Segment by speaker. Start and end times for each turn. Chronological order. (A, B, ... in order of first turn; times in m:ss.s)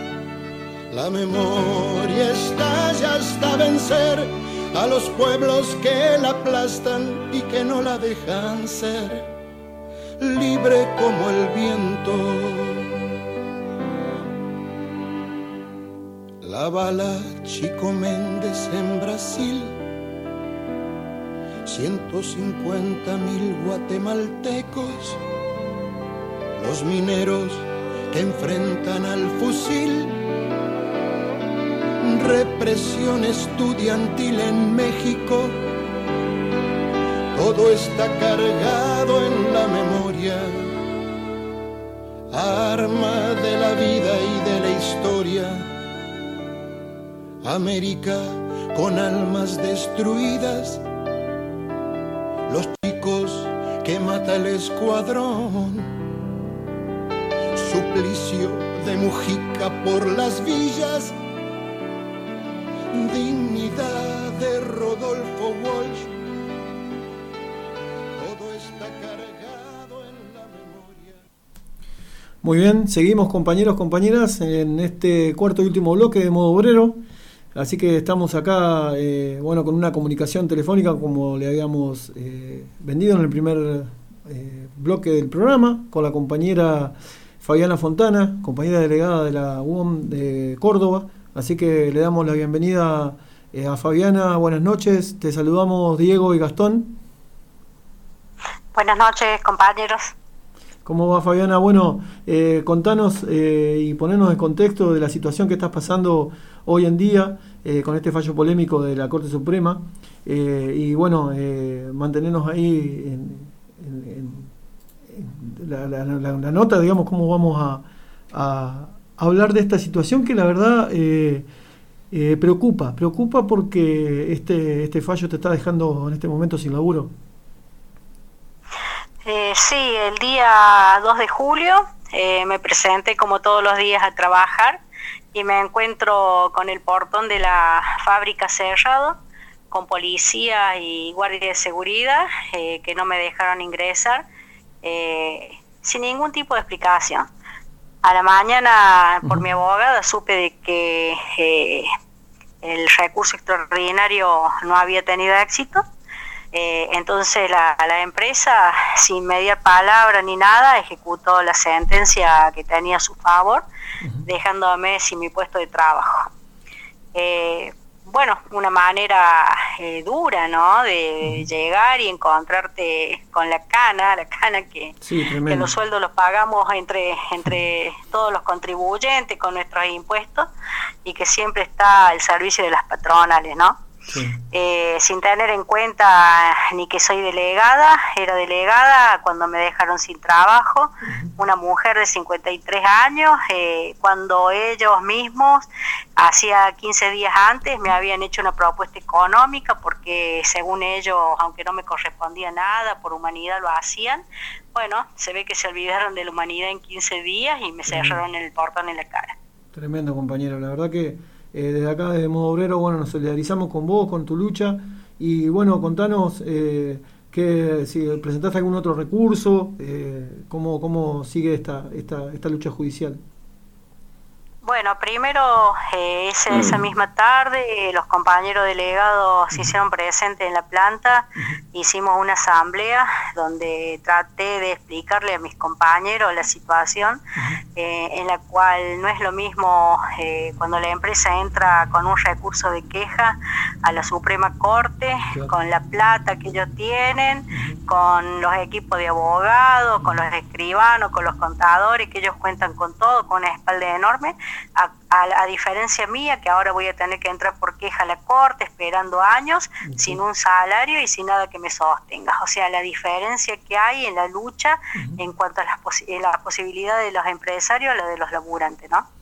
0:00.9-0:09.3 A
0:10.2-0:13.0 A
0:16.4-0:19.8 A
0:21.6-0:25.2 A
0:26.6-0:30.2 A
0:32.0-0:35.6 A
0:37.3-0:40.8 A
0:42.3-0:45.7 A
0:47.4-0:50.8 A
0:52.5-0:55.9 A
0:57.5-1:01.2 A
1:02.9-1:06.2 A
1:08.2-1:11.2 A
1:12.4-1:17.0 B
1:17.5-1:37.0 B
1:38.7-1:40.1 C
1:40.8-1:54.5 B
1:55.1-2:01.5 B
2:02.1-2:07.1 B
2:09.2-2:14.8 C
2:15.3-2:19.2 C
2:19.7-2:24.2 C
2:24.8-2:27.3 C
2:28.0-2:31.9 C
2:32.6-2:35.8 C
2:36.5-2:43.6 C
2:44.0-2:44.3 B
2:44.2-2:46.3 C
2:47.1-3:00.5 C
2:55.0-2:55.7 B
3:01.0-3:03.8 C
3:04.1-3:04.4 B
3:04.5-3:15.7 C
3:16.2-3:29.3 C
3:27.9-3:28.2 B
3:29.7-3:43.2 B
3:44.6-3:57.2 C
3:46.5-3:46.9 B
3:57.8-4:29.0 C
4:07.5-4:07.8 B
4:19.8-4:20.2 B